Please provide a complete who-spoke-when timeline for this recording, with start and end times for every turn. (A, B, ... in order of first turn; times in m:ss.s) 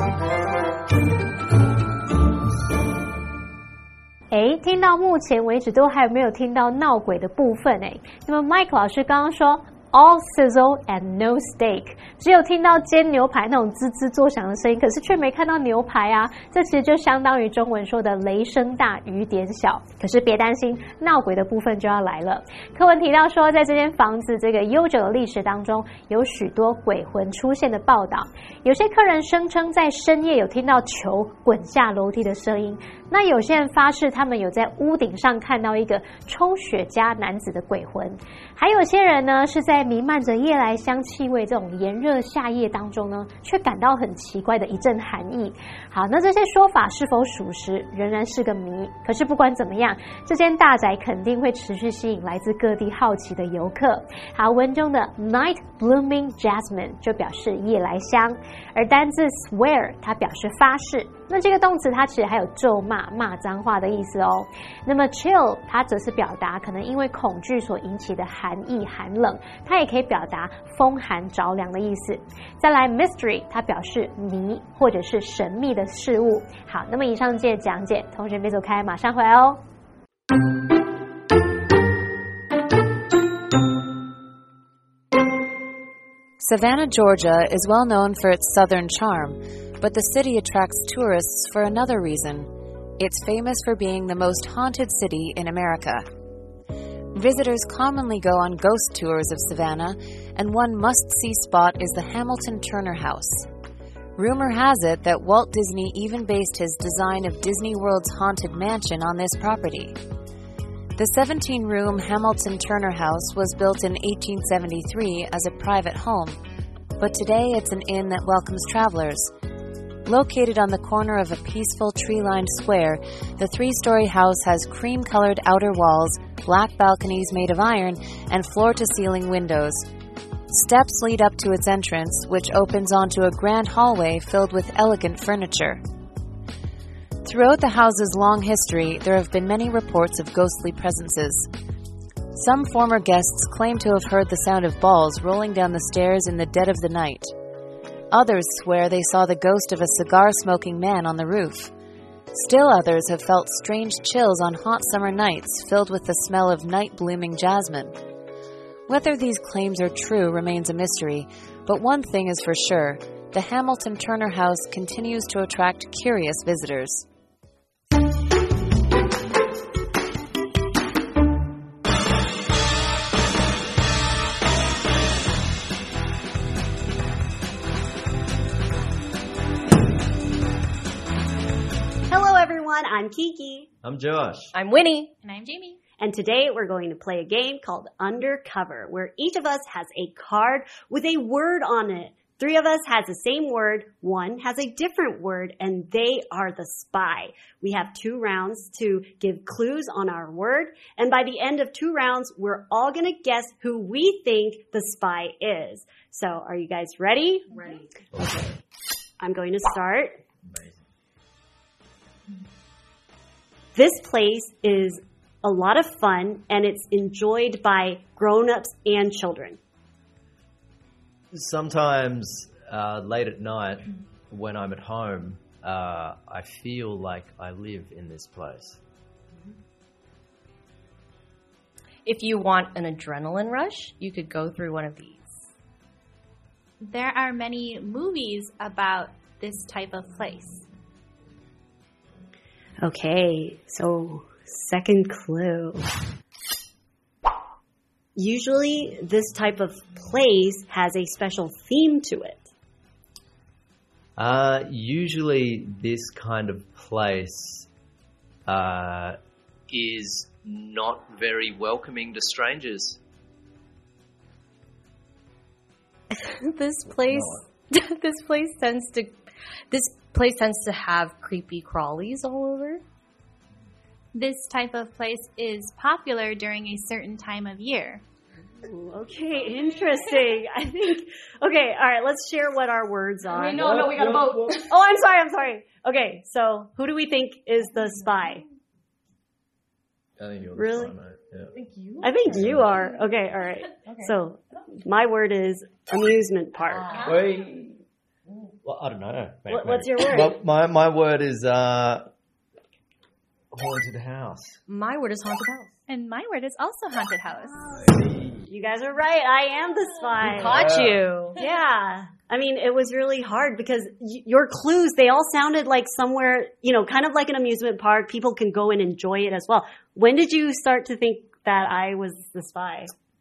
0:04.3-1:19.6 A
1:26.4-1:36.1 B
1:37.1-1:43.5 B
1:44.2-1:50.0 B
1:51.0-1:56.4 B
1:57.0-1:59.3 B
2:00.1-2:09.9 B
2:10.5-2:15.8 B
2:17.2-2:21.5 B
2:22.3-2:27.3 B
2:28.1-2:31.7 B
2:32.3-2:38.0 B
2:38.9-2:47.0 B
3:02.1-3:03.7 C
3:03.8-3:04.5 D
3:04.5-3:05.1 E
3:05.2-3:05.8 F
3:06.0-3:28.4 C
3:28.2-3:28.5 D
3:29.2-3:30.2 C
3:30.5-3:30.8 D
3:33.8-3:39.6 C
3:41.3-3:48.8 D
3:52.0-3:55.5 E
3:56.8-4:00.6 F
4:02.8-4:05.9 C
4:08.2-4:12.5 C
4:14.2-4:17.7 D
4:18.5-4:19.2 D
4:19.7-4:23.0 D
4:26.1-4:29.2 E
4:29.7-4:32.8 E
4:34.2-4:38.0 F
4:38.6-4:43.7 C
4:43.6-4:44.6 D
4:44.6-4:48.4 C
4:50.2-4:51.5 D
4:50.6-4:51.0 C
4:51.5-4:52.5 E
4:52.0-4:57.0 C
4:52.3-4:52.7 D
4:56.9-4:57.7 D
4:58.6-5:02.1 D
4:59.5-5:00.4 C
5:03.5-5:04.6 D
5:04.7-5:05.7 E
5:05.9-5:07.7 F
5:07.8-5:08.4 D
5:08.5-5:10.9 C
5:10.2-5:11.1 D
5:10.2-5:11.4 E
5:11.4-5:22.9 C